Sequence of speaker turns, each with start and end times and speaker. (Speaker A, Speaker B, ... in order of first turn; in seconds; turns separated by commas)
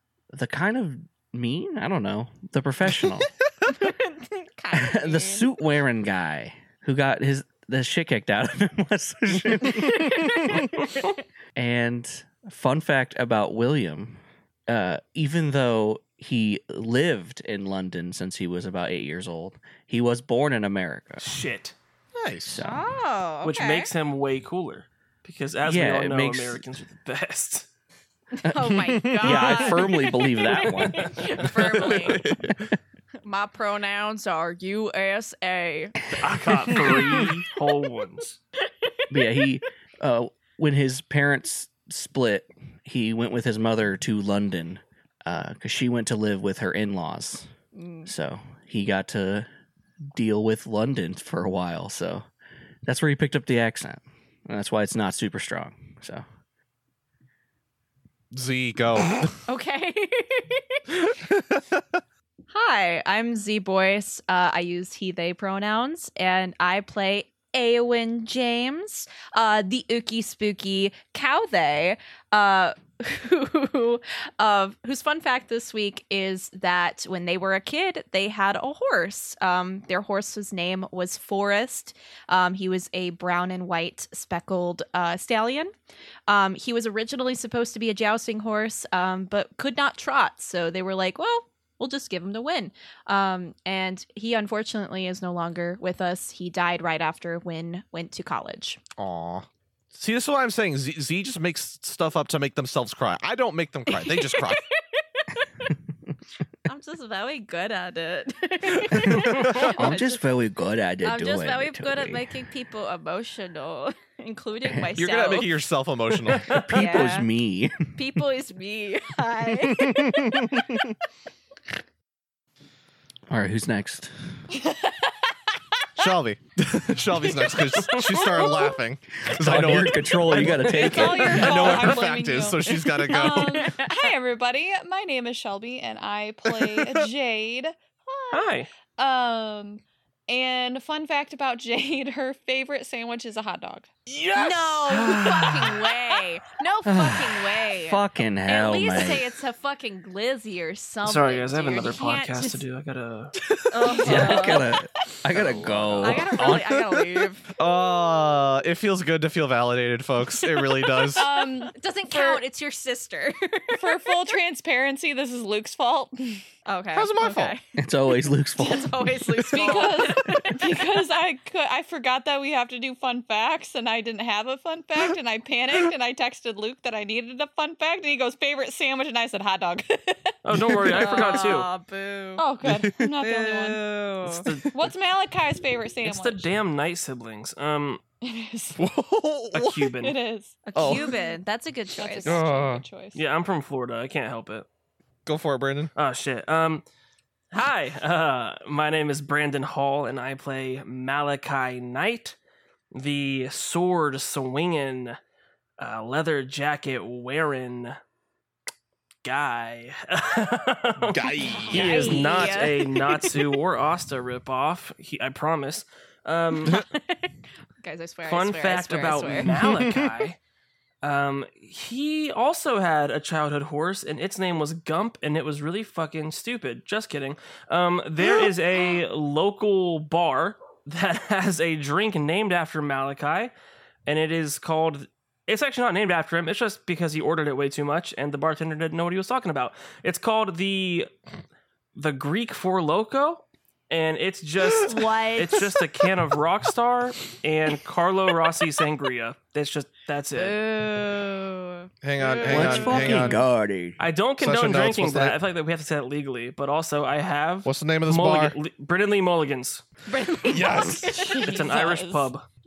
Speaker A: 0.3-3.3, Speaker B: 3.7-5.5, Speaker A: 4.7-10.7, Speaker B: 9.6-11.1, Speaker A: 11.6-21.3, Speaker C: 21.2-21.8, Speaker D: 22.1-22.6, Speaker A: 22.4-22.8, Speaker B: 22.6-23.9, Speaker C: 23.4-27.7, Speaker A: 25.6-26.6, Speaker B: 28.3-32.2, Speaker A: 28.4-32.6, Speaker D: 28.6-29.7, Speaker C: 31.0-31.3, Speaker D: 31.3-32.7, Speaker B: 33.2-36.0, Speaker C: 36.1-38.4, Speaker A: 39.1-47.5, Speaker B: 47.8-48.1, Speaker A: 48.1-49.5, Speaker A: 50.1-52.2, Speaker A: 52.8-56.2, Speaker D: 58.3-59.4, Speaker B: 59.5-60.9, Speaker D: 61.0-62.0, Speaker B: 62.5-85.7, Speaker B: 86.3-98.8, Speaker D: 99.0-104.6, Speaker B: 103.9-105.7, Speaker B: 106.7-110.2, Speaker D: 108.9-109.7, Speaker A: 109.0-112.3, Speaker B: 111.0-115.6, Speaker D: 114.9-117.1, Speaker C: 116.4-116.6, Speaker A: 116.6-118.0, Speaker B: 116.7-117.3, Speaker B: 118.0-120.6, Speaker D: 119.6-121.0, Speaker A: 123.3-124.1, Speaker D: 126.0-133.7, Speaker B: 127.4-128.5, Speaker A: 129.2-131.7, Speaker E: 130.5-137.8, Speaker B: 133.1-134.1, Speaker D: 136.6-137.0, Speaker C: 138.3-138.7, Speaker E: 139.0-143.9, Speaker D: 144.1-145.7, Speaker B: 144.3-152.6, Speaker C: 144.9-145.7, Speaker A: 146.8-149.3, Speaker C: 151.0-153.3, Speaker D: 153.5-154.5, Speaker B: 153.7-154.8, Speaker A: 154.0-156.7, Speaker E: 154.1-154.4, Speaker D: 155.3-157.0, Speaker B: 156.0-157.5, Speaker D: 157.5-161.2, Speaker B: 160.5-164.0, Speaker E: 161.2-162.4, Speaker E: 163.8-166.4, Speaker B: 166.7-167.6, Speaker D: 166.9-167.6, Speaker A: 167.8-169.1, Speaker B: 168.6-170.7, Speaker E: 169.5-181.6, Speaker D: 169.6-169.9, Speaker C: 180.4-181.7, Speaker B: 180.9-182.4, Speaker E: 182.4-183.8, Speaker D: 182.6-184.7, Speaker B: 183.8-184.5, Speaker C: 184.3-184.7, Speaker E: 184.7-186.5, Speaker C: 186.1-188.0, Speaker E: 188.2-188.8, Speaker D: 188.8-189.9, Speaker C: 189.5-190.2, Speaker E: 190.0-191.3, Speaker B: 190.7-192.5, Speaker D: 190.8-191.1, Speaker E: 191.9-193.2, Speaker D: 192.2-192.8, Speaker C: 193.1-194.7, Speaker D: 195.2-195.9, Speaker C: 196.0-196.8, Speaker C: 197.5-202.4, Speaker C: 202.9-205.2, Speaker C: 205.8-208.0, Speaker C: 209.2-216.9, Speaker D: 211.1-212.6, Speaker B: 211.4-213.4, Speaker B: 216.7-219.6, Speaker C: 218.2-220.4, Speaker D: 219.5-220.1, Speaker C: 221.0-233.5, Speaker C: 234.1-241.1, Speaker C: 241.9-250.6, Speaker B: 244.8-245.7, Speaker B: 250.3-253.3, Speaker D: 252.0-253.4, Speaker A: 252.4-254.0, Speaker C: 254.0-259.9, Speaker D: 254.4-255.4, Speaker D: 257.6-258.6, Speaker B: 260.1-261.7, Speaker D: 260.5-261.2, Speaker E: 261.0-262.3, Speaker C: 261.2-262.4